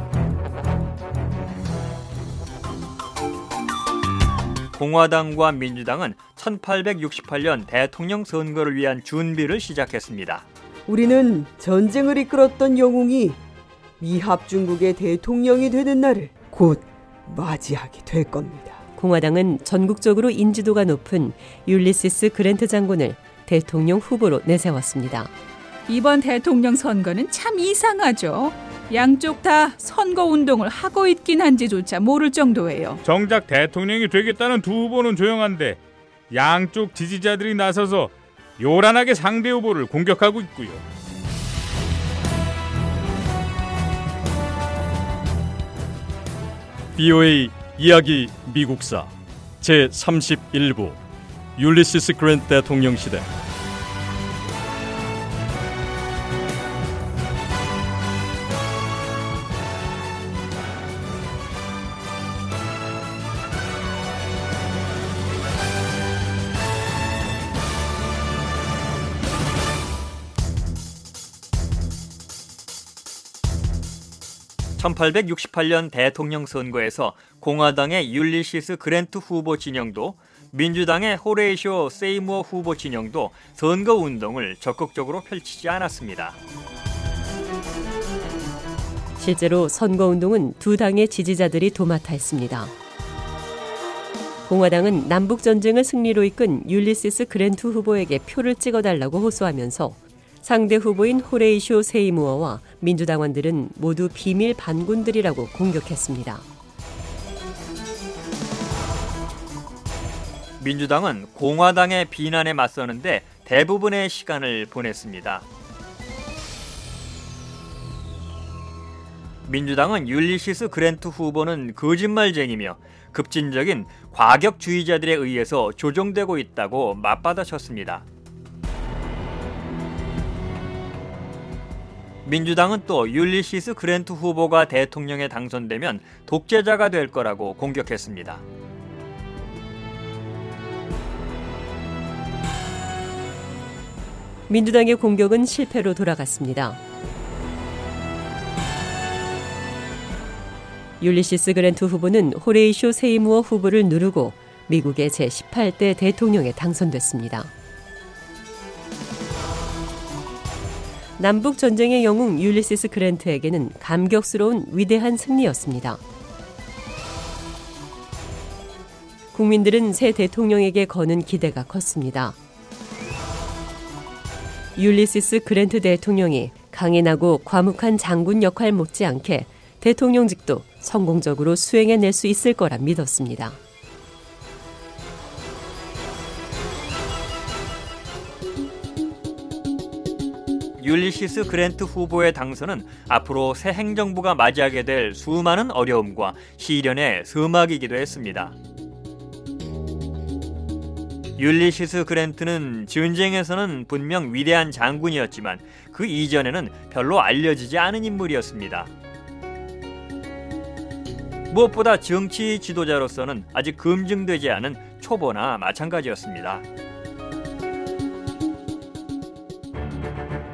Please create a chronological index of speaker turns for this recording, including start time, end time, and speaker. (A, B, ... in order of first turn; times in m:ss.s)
0:04.7-0:10.4 A
0:10.9-0:13.4 B
0:14.0-0:18.8 B
0:19.0-0:25.3 C
0:25.9-0:33.0 D
0:33.0-0:40.8 E
0:47.0-0:51.0 F
0:51.6-0:53.3 F
1:14.8-1:26.4 A
1:29.2-1:32.7 C
1:34.5-1:46.5 C
1:50.6-1:55.5 A
1:59.5-2:08.0 A
2:12.2-2:18.4 A
2:24.5-2:26.8 C
2:31.0-2:37.5 C
2:41.2-2:46.0 C
2:49.3-2:52.4 C
2:54.8-3:03.6 C
3:10.8-3:18.5 A
3:21.4-3:28.9 A
3:31.5-3:36.6 A